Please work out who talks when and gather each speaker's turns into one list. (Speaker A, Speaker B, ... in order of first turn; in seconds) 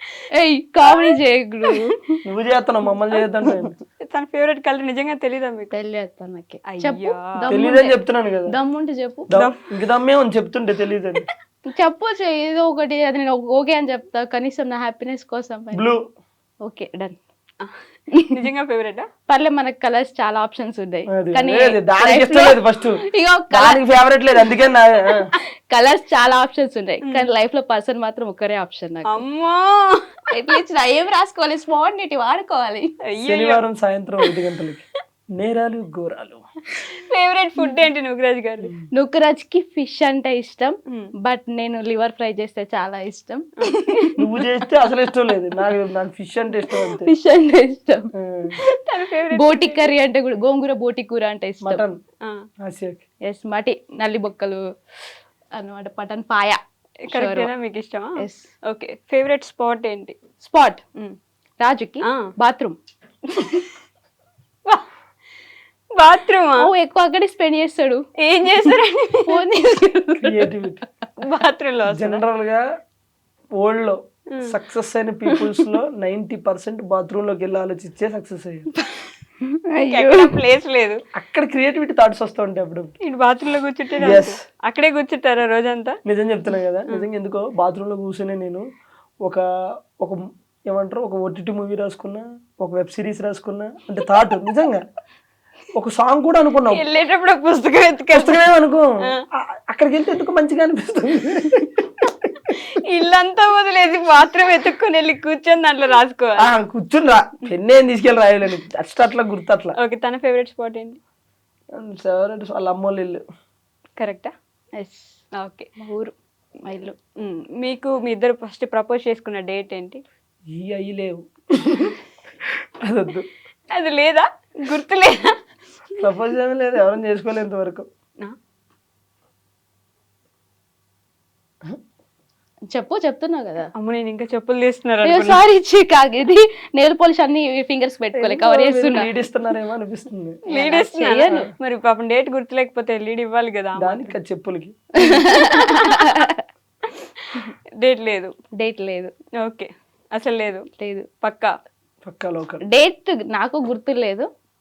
Speaker A: 0.3-2.0, 5.7-9.3, 11.7-15.9, 16.6-17.2, 19.3-23.8, 25.7-29.2, 30.3-32.9, 38.9-44.1, 46.8-48.1, 49.3-51.8, 53.3-54.6, 55.5-56.6, 57.1-57.5, 58.2-58.5, 60.4-60.8, 61.6-62.8, 66.6-68.0, 69.3-70.5, 79.4-80.4, 114.8-115.2, 115.8-116.1, 116.6-117.0, 132.7-133.7, 135.1-139.1, 140.5-141.5, 145.0-146.4, 148.6-149.1, 150.8-151.1, 152.7-154.3
Speaker B: 0.9-1.1, 1.7-1.9, 4.0-5.7, 6.7-7.5, 18.3-19.1, 29.1-30.0, 33.1-33.6, 36.9-38.7, 43.6-44.1, 48.9-49.9, 57.1-60.2, 62.0-62.3, 63.3-63.7, 66.0-66.7, 68.2-69.4, 71.2-72.2, 79.9-81.0, 83.0-86.0, 96.7-98.4, 102.5-106.5, 109.8-111.0, 114.0-114.3, 115.4-115.7, 117.2-120.0, 123.7-125.4, 133.8-135.4, 140.5-144.2, 145.2-146.1, 146.9-148.3, 149.4-150.7, 151.2-151.5
Speaker C: 2.2-3.7, 7.5-8.5, 9.3-11.3, 15.7-16.1, 21.1-23.0, 23.5-25.3, 33.2-34.9, 35.4-36.4, 44.2-47.1, 48.1-48.5, 51.6-52.0, 52.6-53.0, 70.2-70.8, 71.9-72.6, 73.6-78.7, 81.2-82.9, 84.0-84.4, 86.1-88.6, 90.0-94.8, 95.8-96.8, 98.1-101.8, 106.4-109.8, 111.8-113.2, 120.5-123.3, 126.0-127.9, 138.1-140.4, 143.8-144.8, 152.0-152.6